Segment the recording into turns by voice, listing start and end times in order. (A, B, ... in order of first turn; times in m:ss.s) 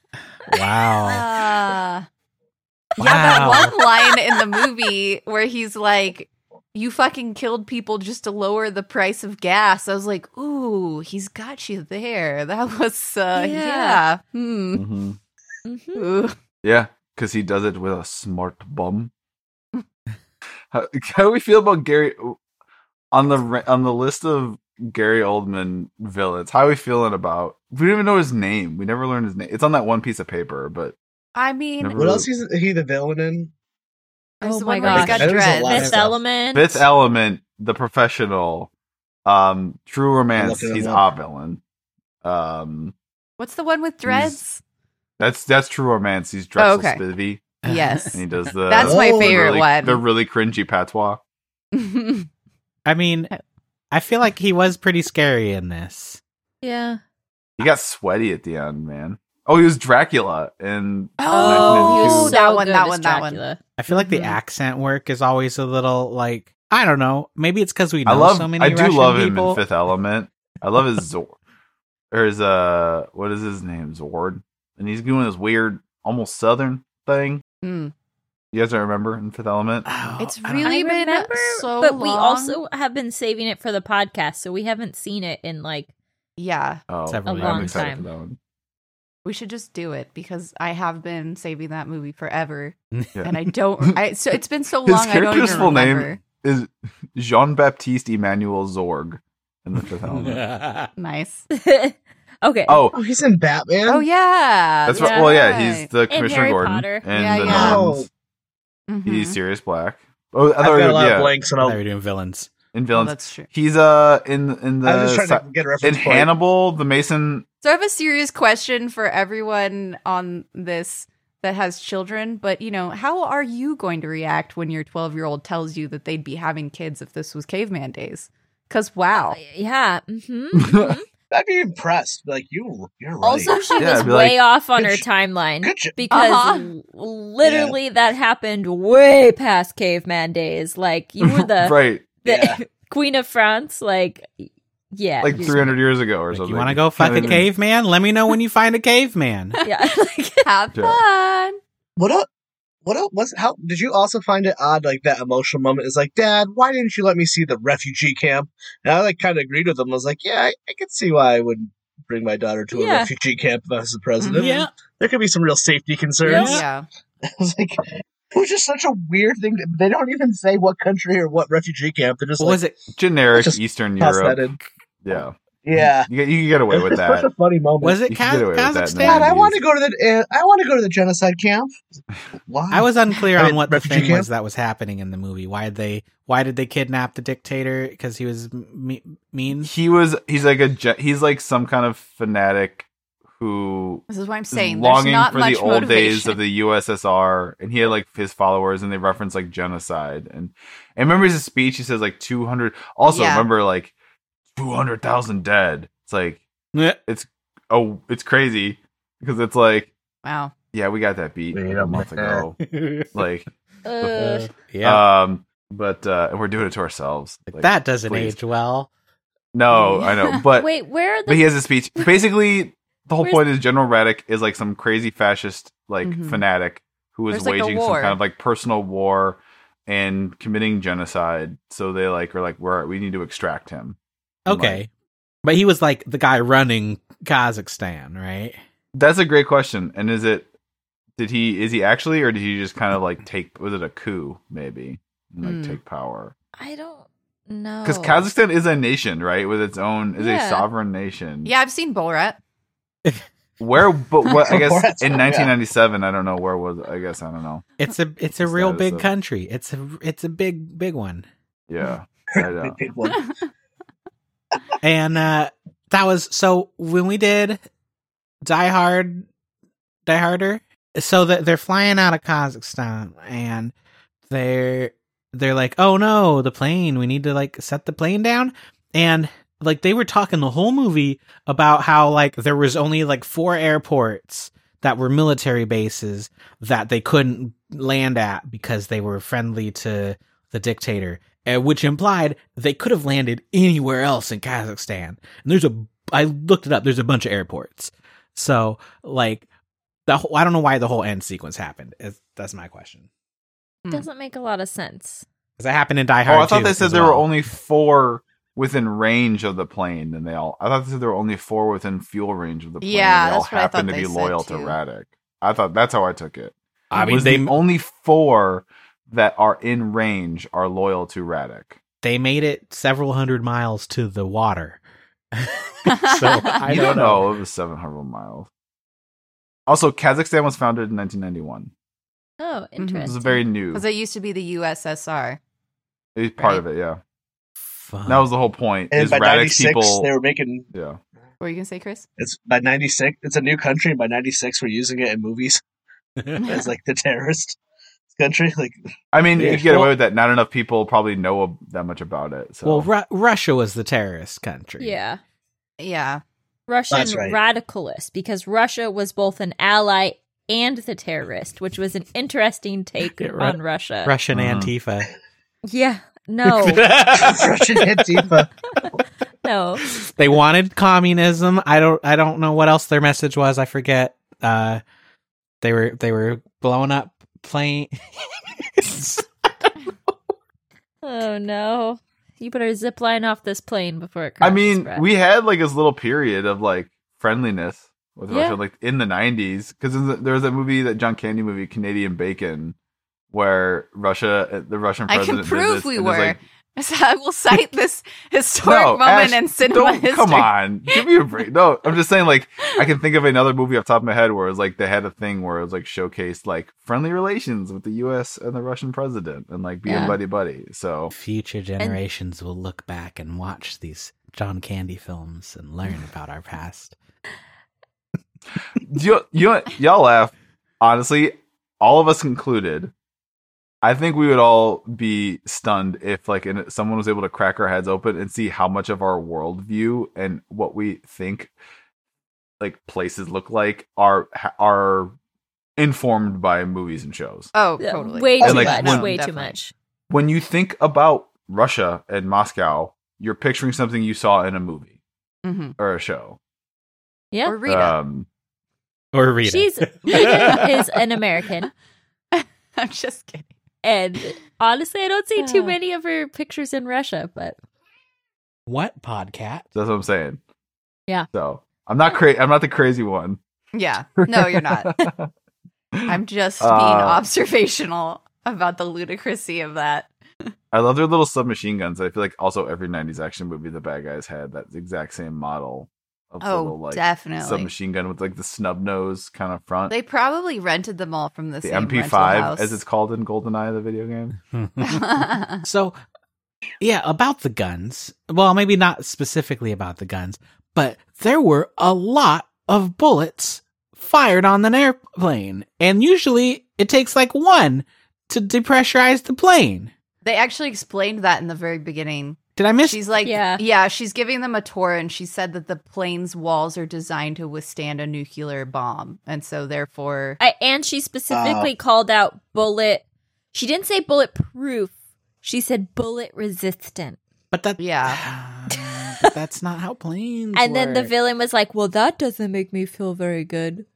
0:00.5-0:01.3 A
0:01.0-0:02.0 B
0:03.0-0:03.8 A
0:03.0-0:14.9 B
0:03.5-0:04.4 C
0:13.3-0:14.0 C
0:14.7-0:15.2 D
0:15.6-0:16.1 C
0:16.0-0:16.3 B
0:16.6-0:19.1 D
0:20.7-0:22.4 D
0:23.1-0:30.9 D
0:31.3-0:32.1 B
0:31.8-0:32.3 D
0:32.0-0:33.5 E
0:34.4-0:35.8 B
0:34.4-0:36.8 C
0:34.9-0:36.1 E
0:34.9-0:35.2 A
0:35.7-0:36.0 A
0:36.5-0:38.7 D
0:39.2-0:41.6 D
0:40.4-0:41.1 E
0:42.2-0:42.9 D
0:43.4-0:44.6 B
0:44.0-0:44.4 D
0:45.2-0:47.4 D
0:46.6-0:47.0 B
0:47.6-0:48.2 A
0:47.6-0:50.0 B
0:48.1-0:51.2 D
0:48.8-0:49.6 E
0:51.7-0:52.3 B
0:52.8-0:53.3 A
0:53.9-0:56.2 A
0:56.6-0:57.0 C
0:57.6-1:02.4 D
1:01.2-1:04.4 B
1:01.3-1:03.6 C
1:03.8-1:09.6 A
1:08.0-1:11.4 D
1:12.1-1:17.4 D
1:17.6-1:17.9 B
1:18.5-1:19.9 D
1:19.9-1:20.7 A
1:20.2-1:22.6 B
1:20.6-1:25.9 C
1:26.4-1:26.8 B
1:26.9-1:28.4 D
1:27.1-1:27.9 A
1:27.2-1:28.1 C
1:29.2-1:32.8 B
1:33.1-1:34.0 D
1:33.3-1:36.2 B
1:34.8-1:40.4 D
1:40.2-1:40.9 A
1:41.0-1:41.5 B
1:41.5-1:42.8 C
1:42.7-1:43.0 D
1:42.9-1:44.0 E
1:43.9-1:45.9 B
1:44.8-1:48.1 D
1:45.0-1:45.3 C
1:46.1-1:47.0 C
1:47.1-1:47.8 B
1:47.4-1:48.1 E
1:48.9-1:49.4 B
1:49.0-1:51.3 D
1:50.6-1:51.8 E
1:51.6-1:52.5 A
1:52.7-1:57.4 D
1:52.9-1:53.5 B
1:54.8-1:56.3 E
1:57.6-2:09.4 B
2:09.1-2:11.0 C
2:10.6-2:11.0 D
2:11.3-2:13.6 E
2:13.2-2:25.7 C
2:13.5-2:14.1 B
2:13.8-2:14.4 D
2:14.8-2:15.0 E
2:15.6-2:16.0 E
2:16.1-2:16.7 B
2:17.4-2:17.8 E
2:21.2-2:22.1 D
2:22.2-2:22.6 E
2:25.2-2:27.5 D
2:26.3-2:29.6 A
2:29.6-2:30.4 C
2:30.4-2:31.6 B
2:30.7-2:31.0 D
2:32.0-2:32.3 E
2:32.8-2:46.6 E
2:42.7-2:43.1 C
2:44.2-2:44.4 B
2:44.3-2:44.7 A
2:46.2-2:46.5 C
2:46.3-2:46.6 A
2:46.3-2:46.8 B
2:47.2-2:52.6 E
2:52.4-2:52.8 A
2:52.9-2:57.3 D
2:53.3-2:54.6 E
2:55.6-2:56.1 E
2:56.7-2:58.0 E
2:57.8-2:59.4 A
2:58.1-2:59.6 D
2:59.0-3:01.7 E
3:02.5-3:04.3 E
3:02.7-3:09.7 A
3:09.6-3:23.9 D
3:14.1-3:16.4 B
3:23.0-3:23.5 B
3:24.6-3:26.4 D
3:27.0-3:29.9 D
3:30.2-3:30.5 B
3:30.7-3:32.6 D
3:31.5-3:32.4 E
3:32.7-3:33.1 A
3:33.1-3:33.5 D
3:33.8-3:34.5 C
3:34.0-3:35.0 A
3:34.8-3:38.4 D
3:37.5-3:38.9 A
3:39.5-3:40.7 D
3:39.7-3:40.4 B
3:40.6-3:41.5 C
3:41.3-3:54.8 D
3:46.0-3:46.4 B
3:47.3-3:48.2 B
3:54.4-3:54.9 A
3:55.4-3:58.6 A
3:58.9-4:00.5 D
4:01.2-4:06.3 D
4:05.4-4:05.8 B
4:06.6-4:08.3 C
4:07.8-4:11.5 D
4:10.2-4:10.6 C
4:11.4-4:12.4 B
4:13.6-4:17.6 D
4:14.4-4:15.5 E
4:17.8-4:21.2 A
4:18.4-4:19.1 D
4:21.7-4:22.8 D
4:22.3-4:23.2 E
4:24.8-4:27.6 A
4:28.4-4:29.3 A
4:30.0-4:33.7 A
4:34.3-4:59.4 A
5:00.1-5:03.0 A
5:03.9-5:05.2 C
5:05.6-5:07.3 A
5:06.2-5:21.8 D
5:12.8-5:14.8 B
5:16.9-5:17.6 A
5:22.0-5:24.8 A
5:25.3-5:27.3 A
5:25.9-5:26.6 B
5:26.6-5:28.5 D
5:29.7-5:31.7 D
5:32.4-5:33.4 C
5:32.8-5:33.1 B
5:33.0-5:33.8 D
5:33.7-5:35.4 B
5:36.1-5:37.0 D
5:37.7-5:38.3 A
5:38.0-5:40.1 D
5:38.9-5:40.7 E
5:40.7-5:41.0 D
5:41.4-5:42.0 B
5:42.2-5:45.6 E
5:46.4-5:47.6 E
5:48.1-5:48.8 E
5:49.1-5:52.9 D
5:49.4-5:49.7 E
5:49.4-5:49.9 A
5:52.6-5:55.0 A
5:54.8-5:55.2 C
5:55.8-5:56.2 B
5:56.7-6:04.1 C
5:56.9-5:57.4 E
6:03.2-6:05.1 A
6:04.3-6:04.7 D
6:05.6-6:06.9 C
6:06.4-6:07.5 A
6:07.1-6:08.5 E
6:09.4-6:09.9 C
6:09.9-6:14.8 A
6:15.6-6:17.9 A
6:18.8-6:19.7 A
6:21.0-6:25.0 C
6:24.4-6:32.7 D
6:28.3-6:28.6 C
6:33.3-6:36.4 D
6:35.1-6:41.0 B
6:38.6-6:51.1 D
6:49.8-6:50.2 C
6:51.1-6:57.0 A
6:58.8-7:02.9 D
7:03.8-7:11.5 D
7:12.6-7:15.1 D
7:15.8-7:17.5 D
7:17.5-7:19.6 B
7:17.8-7:19.7 C
7:18.4-7:19.0 E
7:18.4-7:19.0 D
7:20.1-7:24.9 D
7:25.4-7:25.8 B
7:25.8-7:26.4 D
7:27.3-7:27.6 C
7:27.4-7:28.0 B
7:27.6-7:28.3 D
7:29.1-7:30.7 A
7:29.4-7:31.7 C
7:30.1-7:30.6 B
7:32.4-7:33.5 B
7:33.8-7:37.6 C
7:35.4-7:35.8 B
7:38.7-7:39.6 A
7:39.7-7:40.4 D
7:41.3-7:43.4 D
7:43.7-7:44.9 B
7:44.2-7:45.3 D
7:45.9-7:47.2 D
7:46.1-7:50.1 B
7:50.7-8:00.0 D
7:56.4-7:57.7 B
7:59.9-8:02.8 B
8:01.6-8:04.4 D
8:04.5-8:06.0 A
8:04.8-8:05.6 B
8:06.8-8:19.9 A
8:20.2-8:30.4 B
8:22.6-8:23.0 A
8:23.2-8:23.6 C
8:30.4-8:34.9 C
8:31.3-8:31.7 E
8:35.4-8:37.2 C
8:37.5-8:41.1 A
8:37.8-8:38.2 B
8:38.7-8:39.3 C
8:40.5-8:43.8 C